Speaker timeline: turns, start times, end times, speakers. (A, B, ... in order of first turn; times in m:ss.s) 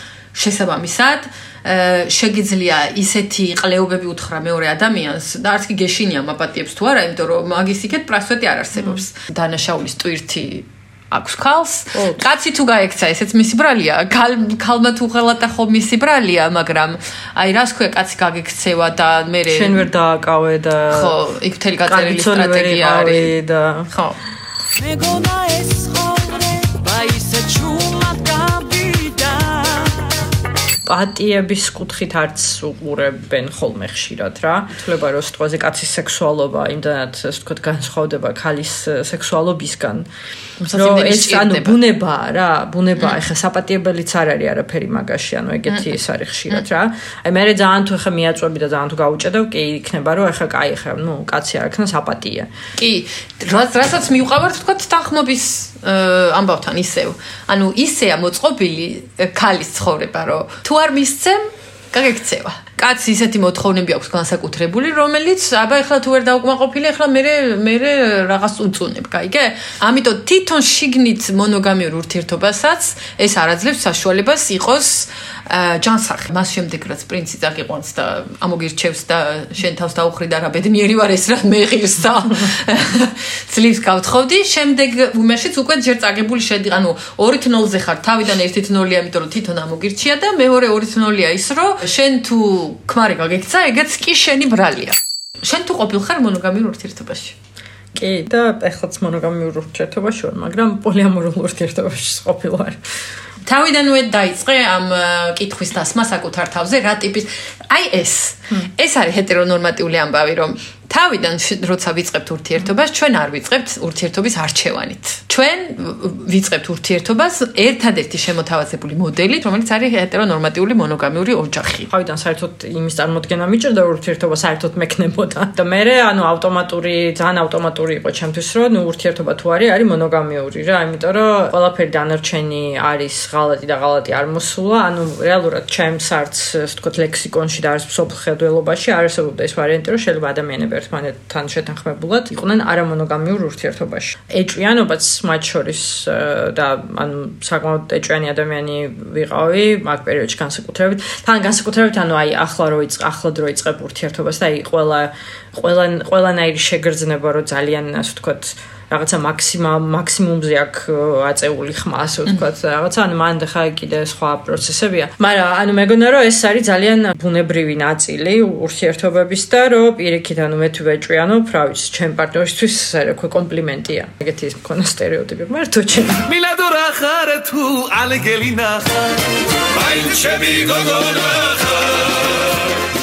0:00.3-0:19.9 A
0:08.8-0:09.0 B
0:11.9-0:12.2 B
0:19.5-0:21.2 B
0:20.9-0:23.4 A
0:21.9-0:23.9 B
0:23.9-0:24.2 A
0:24.8-0:30.2 C
0:30.9-0:40.1 B
0:40.6-0:41.8 A
0:40.7-0:52.5 B
0:52.8-1:37.4 A
1:38.0-1:42.8 B
1:43.5-2:01.9 A
2:01.9-2:56.3 B
2:56.3-2:59.1 D
2:59.7-3:02.2 D